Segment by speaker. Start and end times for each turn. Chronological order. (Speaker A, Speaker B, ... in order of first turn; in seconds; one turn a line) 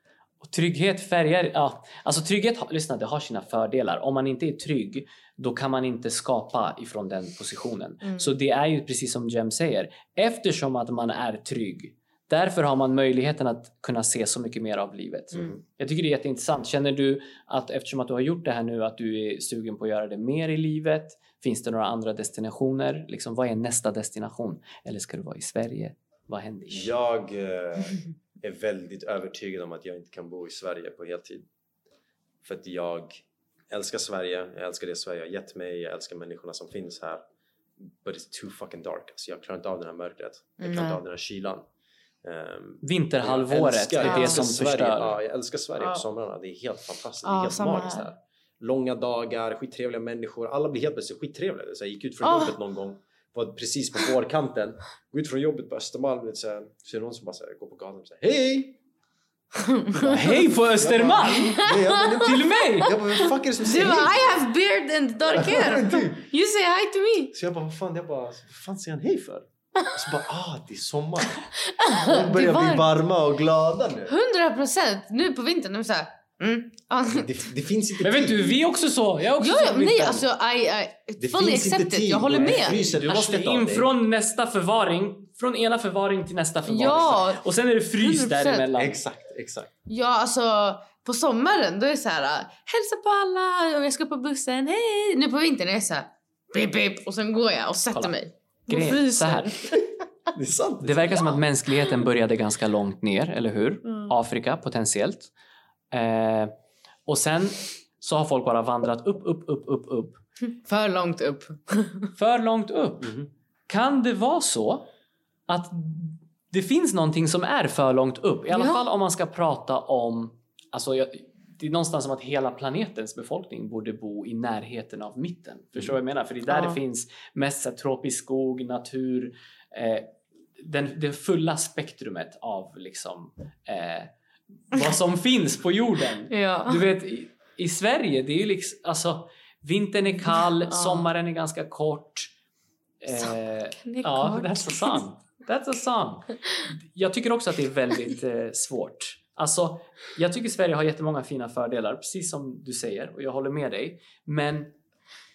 Speaker A: 0.4-26.9
Speaker B: 8.0-8.3
Speaker C: 15.3-15.6
Speaker C: 26.7-31.4
Speaker C: 32.4-37.2
Speaker C: 37.8-41.6
Speaker B: 40.6-41.0
Speaker C: 42.2-58.8
Speaker A: 42.8-45.1
Speaker B: 44.0-44.5
Speaker B: 45.8-46.0
Speaker B: 47.2-48.1
Speaker B: 52.2-52.5
Speaker B: 59.5-60.1
Speaker C: 59.9-64.4
Speaker A: 60.0-63.0
Speaker B: 61.3-67.3
Speaker C: 65.3-66.2
Speaker C: 67.3-71.4
Speaker B: 71.6-72.9
Speaker C: 72.0-74.1
Speaker B: 74.1-77.4
Speaker C: 77.1-78.5
Speaker A: 78.0-80.2
Speaker B: 79.4-82.8
Speaker C: 81.2-83.9
Speaker A: 82.7-89.0
Speaker B: 86.6-87.4
Speaker B: 88.0-88.7
Speaker C: 88.7-89.7
Speaker B: 89.8-99.9
Speaker A: 98.7-99.5
Speaker C: 100.3-101.4
Speaker A: 100.8-105.3
Speaker B: 103.8-104.1
Speaker A: 105.9-106.5
Speaker A: 107.0-110.2
Speaker B: 110.6-112.1
Speaker A: 112.2-114.9
Speaker C: 113.0-113.3
Speaker A: 115.5-134.1
Speaker B: 118.5-118.8
Speaker B: 126.5-126.8
Speaker A: 134.7-142.3
Speaker B: 136.3-136.8
Speaker B: 140.2-141.1
Speaker A: 143.0-154.8
Speaker B: 143.1-145.0